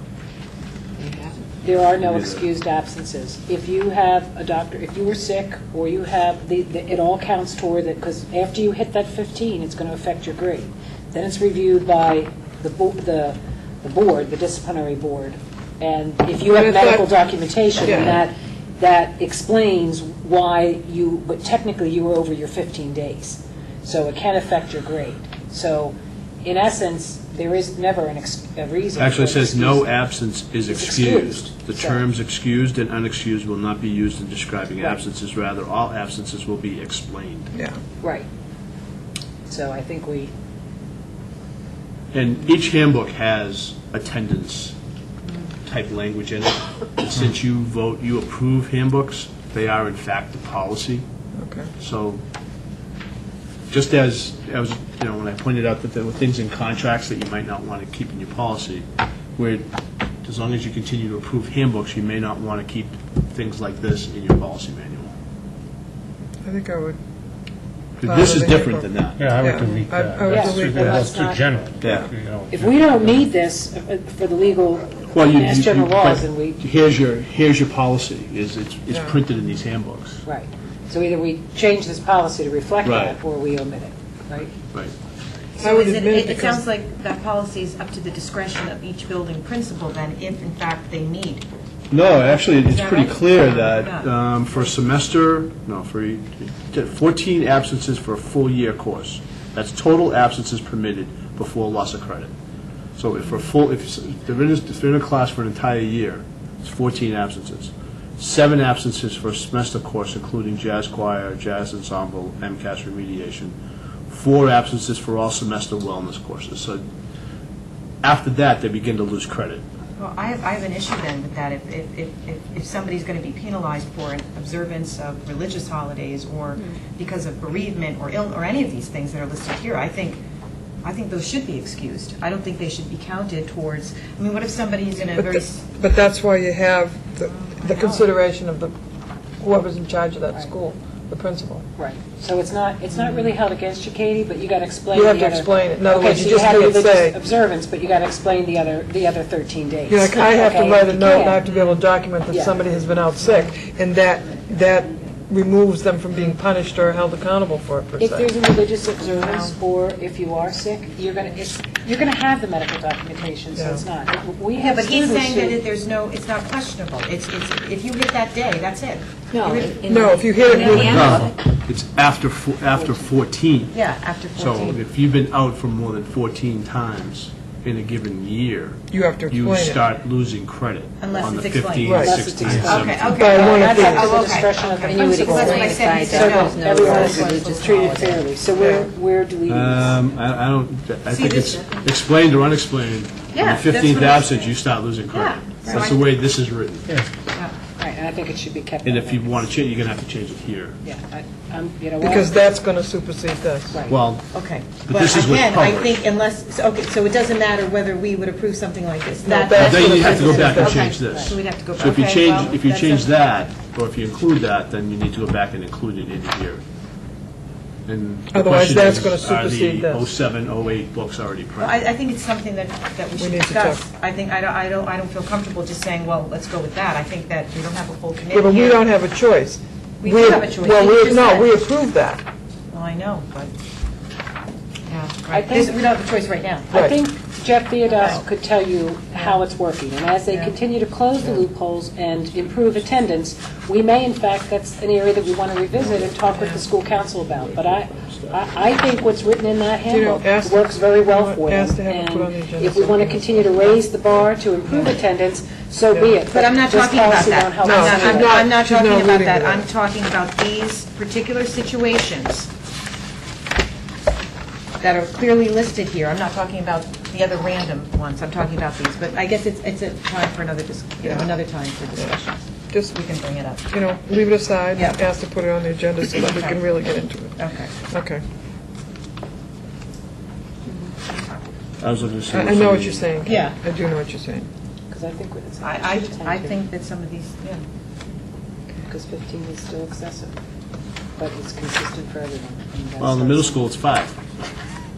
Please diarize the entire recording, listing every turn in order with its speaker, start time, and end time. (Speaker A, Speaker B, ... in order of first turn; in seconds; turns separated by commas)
Speaker A: 1.0-1.3, Speaker B: 1.6-29.9, Speaker C: 2.0-2.4, Speaker D: 16.4-17.1, Speaker D: 17.8-18.2, Speaker C: 29.0-37.5, Speaker B: 30.7-32.0, Speaker D: 37.5-37.8, Speaker B: 38.0-38.3, Speaker B: 39.5-40.3, Speaker C: 42.1-44.8, Speaker C: 45.6-51.0, Speaker D: 51.3-51.7, Speaker C: 51.8-52.2, Speaker C: 53.7-58.9, Speaker C: 59.4-59.7, Speaker C: 60.2-65.1, Speaker D: 66.4-67.0, Speaker C: 68.0-69.2, Speaker D: 68.0-71.0, Speaker E: 69.2-73.2, Speaker B: 70.2-71.6, Speaker C: 71.8-72.1, Speaker B: 72.5-76.6, Speaker C: 75.1-80.2, Speaker D: 78.9-79.2, Speaker B: 80.2-84.5, Speaker C: 82.8-83.2, Speaker D: 85.6-86.6, Speaker F: 85.6-94.1, Speaker C: 91.9-102.3, Speaker C: 103.0-113.5, Speaker C: 114.1-116.8, Speaker C: 118.0-119.6, Speaker F: 120.0-130.2, Speaker F: 130.8-135.6, Speaker D: 135.1-138.7, Speaker F: 137.2-138.1, Speaker D: 139.4-141.7, Speaker B: 141.8-151.5, Speaker D: 144.9-147.2, Speaker D: 149.9-158.3, Speaker B: 152.3-152.6, Speaker B: 158.0-165.6, Speaker F: 159.0-159.5, Speaker D: 163.5-163.8, Speaker F: 164.6-170.9, Speaker A: 169.3-170.1, Speaker D: 169.8-171.3, Speaker C: 170.5-183.3, Speaker A: 170.6-171.4, Speaker B: 172.8-173.0, Speaker F: 173.7-174.8, Speaker D: 178.9-179.8, Speaker F: 181.0-182.0, Speaker D: 181.8-182.2, Speaker B: 181.9-190.0, Speaker E: 182.4-182.8, Speaker F: 182.6-188.0, Speaker D: 183.1-184.2, Speaker A: 184.8-188.2, Speaker C: 186.7-187.0, Speaker D: 188.6-188.9, Speaker C: 189.5-196.9, Speaker F: 191.1-191.7, Speaker F: 193.3-194.3, Speaker F: 195.1-196.0, Speaker B: 197.8-199.5, Speaker C: 198.8-200.8, Speaker B: 200.8-202.3, Speaker D: 202.0-203.8, Speaker B: 203.7-204.0, Speaker C: 203.9-206.0, Speaker F: 204.3-213.1, Speaker D: 209.2-210.9, Speaker C: 209.6-216.6, Speaker B: 210.9-211.3, Speaker C: 217.8-221.8, Speaker D: 218.3-220.0, Speaker F: 221.6-228.8, Speaker D: 223.2-223.8, Speaker D: 228.3-232.2, Speaker F: 230.0-231.5, Speaker F: 232.7-233.5, Speaker F: 234.9-236.7, Speaker B: 235.3-235.8, Speaker D: 236.7-237.0, Speaker B: 236.7-258.4, Speaker F: 237.9-238.2, Speaker C: 245.7-246.3, Speaker C: 247.1-248.4, Speaker D: 249.9-253.8, Speaker D: 255.9-256.2, Speaker F: 256.3-262.5, Speaker D: 257.6-259.7, Speaker F: 264.8-272.3, Speaker D: 272.7-273.0, Speaker F: 272.9-273.7, Speaker D: 273.7-278.2, Speaker F: 276.2-276.6, Speaker F: 277.4-277.7, Speaker C: 281.8-283.2, Speaker D: 282.3-284.5, Speaker F: 283.2-283.6, Speaker B: 284.9-286.6, Speaker F: 285.6-287.6, Speaker B: 288.8-290.3, Speaker B: 291.2-293.6, Speaker C: 293.0-294.1